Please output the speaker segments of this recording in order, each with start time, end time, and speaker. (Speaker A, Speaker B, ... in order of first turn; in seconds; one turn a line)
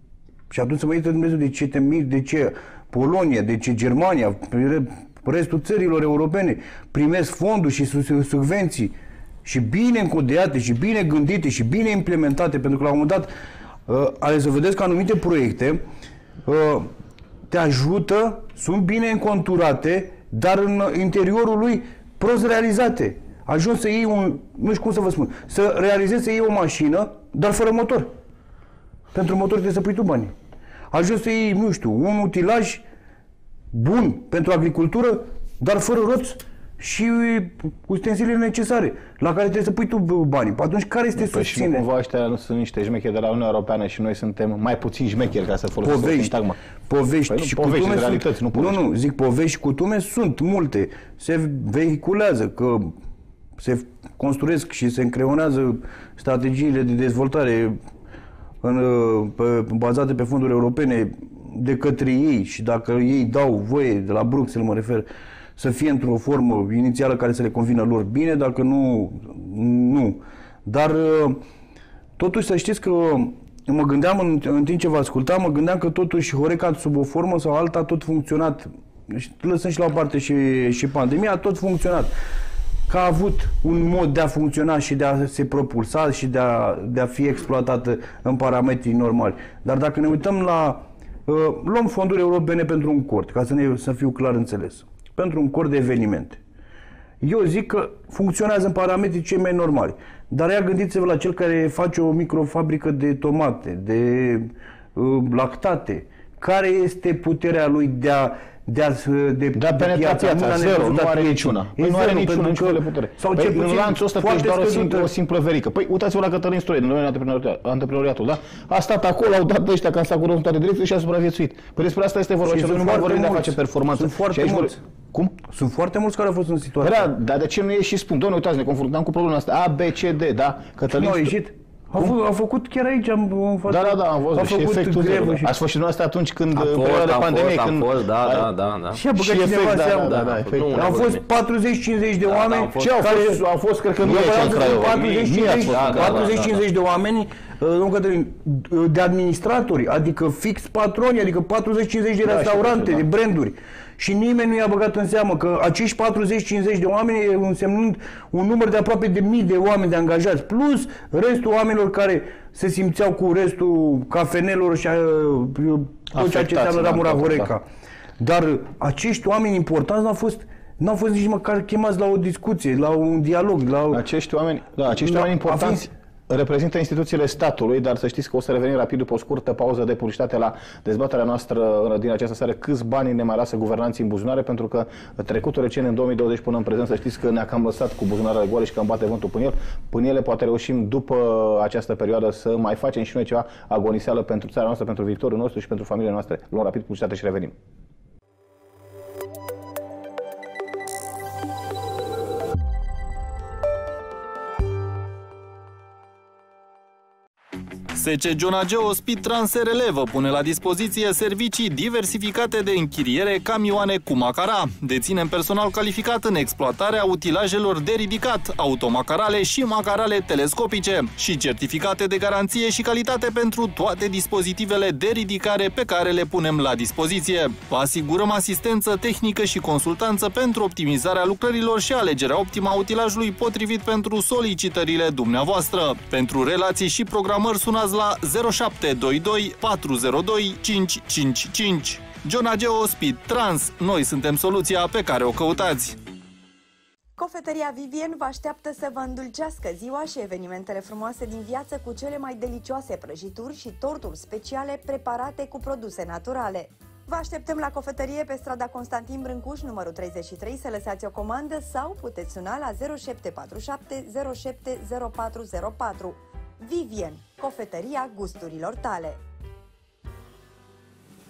Speaker A: 0.5-13.3
Speaker A: 13.9-15.8
Speaker A: 16.4-16.9
Speaker A: 17.5-28.1
Speaker A: 29.1-30.3
Speaker A: 30.9-32.8
Speaker A: 33.7-41.9
Speaker B: 41.1-46.6
Speaker A: 45.8-46.3
Speaker A: 46.9-52.9
Speaker B: 47.3-48.8
Speaker A: 53.6-57.8
Speaker A: 58.6-71.4
Speaker A: 72.2-82.1
Speaker A: 82.9-96.4
Speaker A: 97.2-115.1
Speaker B: 109.5-125.4
Speaker A: 122.5-124.8
Speaker A: 125.5-127.1
Speaker B: 126.8-131.3
Speaker A: 130.9-135.5
Speaker B: 133.7-138.5
Speaker C: 136.5-139.0
Speaker A: 138.9-140.2
Speaker B: 139.1-141.0
Speaker C: 140.0-141.2
Speaker A: 140.7-143.4
Speaker C: 142.2-142.8
Speaker B: 142.8-146.4
Speaker A: 144.0-167.6
Speaker C: 144.5-146.6
Speaker B: 152.2-153.1
Speaker B: 166.1-167.5
Speaker A: 168.2-174.0
Speaker B: 173.9-197.5
Speaker A: 174.9-175.9
Speaker D: 207.9-246.0
Speaker E: 247.2-269.2